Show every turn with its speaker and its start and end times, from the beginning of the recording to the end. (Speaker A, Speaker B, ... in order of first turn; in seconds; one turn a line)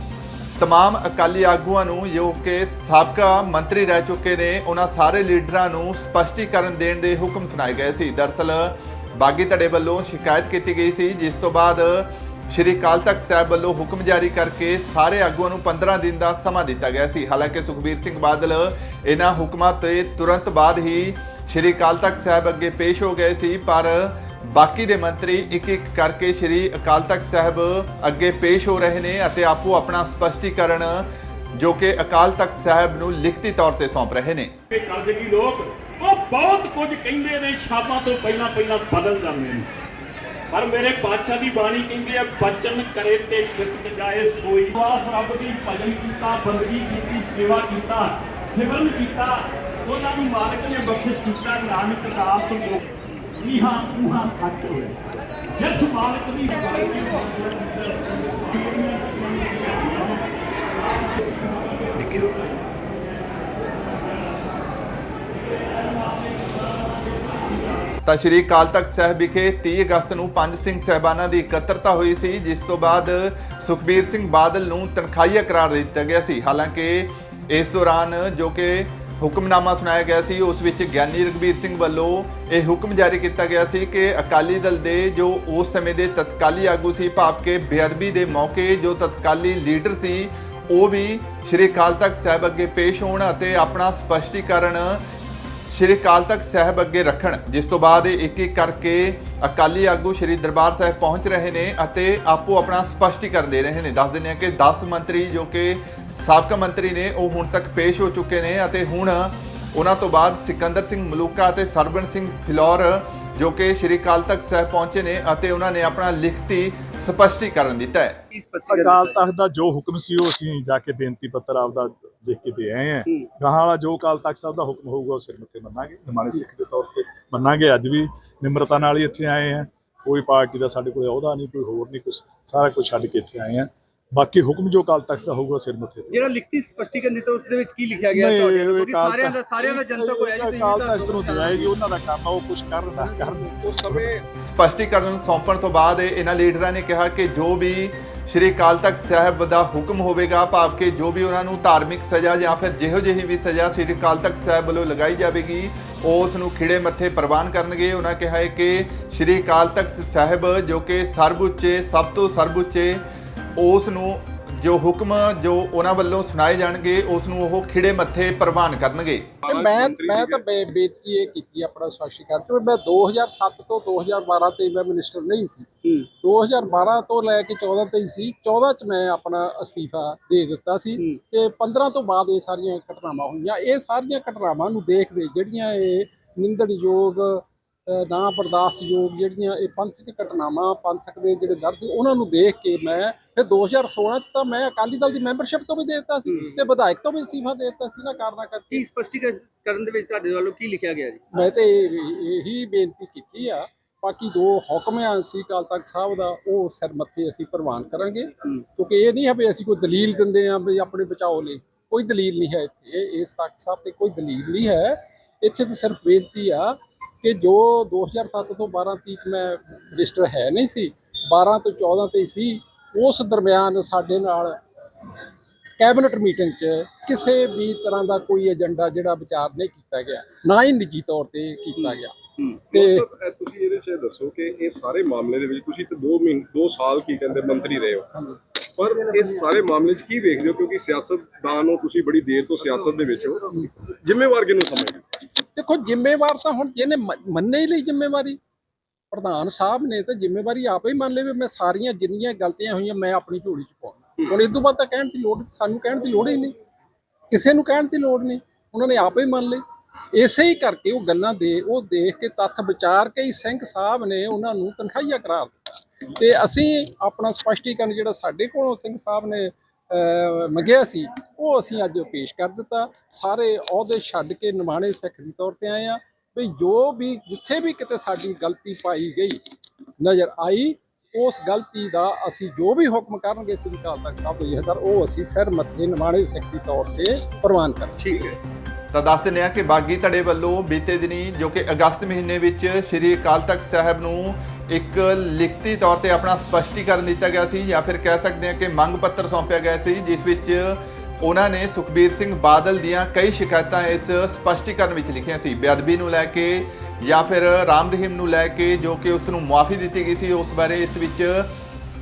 Speaker A: 0.6-34.5
Speaker B: 34.7-39.7
Speaker B: 40.5-52.8
Speaker B: 53.4-55.0
Speaker B: 55.5-60.2
Speaker B: 60.8-64.4
Speaker B: 65.4-67.9
Speaker A: 68.0-95.0
Speaker A: 95.7-118.2
Speaker C: 118.3-119.2
Speaker D: 118.7-136.4
Speaker C: 136.1-141.7
Speaker D: 138.1-144.1
Speaker C: 143.0-143.3
Speaker A: 144.4-163.0
Speaker A: 163.6-169.4
Speaker E: 169.4-170.4
Speaker F: 169.5-198.8
Speaker C: 198.7-201.2
Speaker F: 201.3-224.6
Speaker F: 225.8-232.2
Speaker E: 232.7-238.1
Speaker F: 232.7-233.0
Speaker E: 238.8-245.0
Speaker F: 245.5-248.4
Speaker F: 249.1-256.5
Speaker F: 257.3-279.4
Speaker F: 280.0-288.3
Speaker A: 288.9-311.5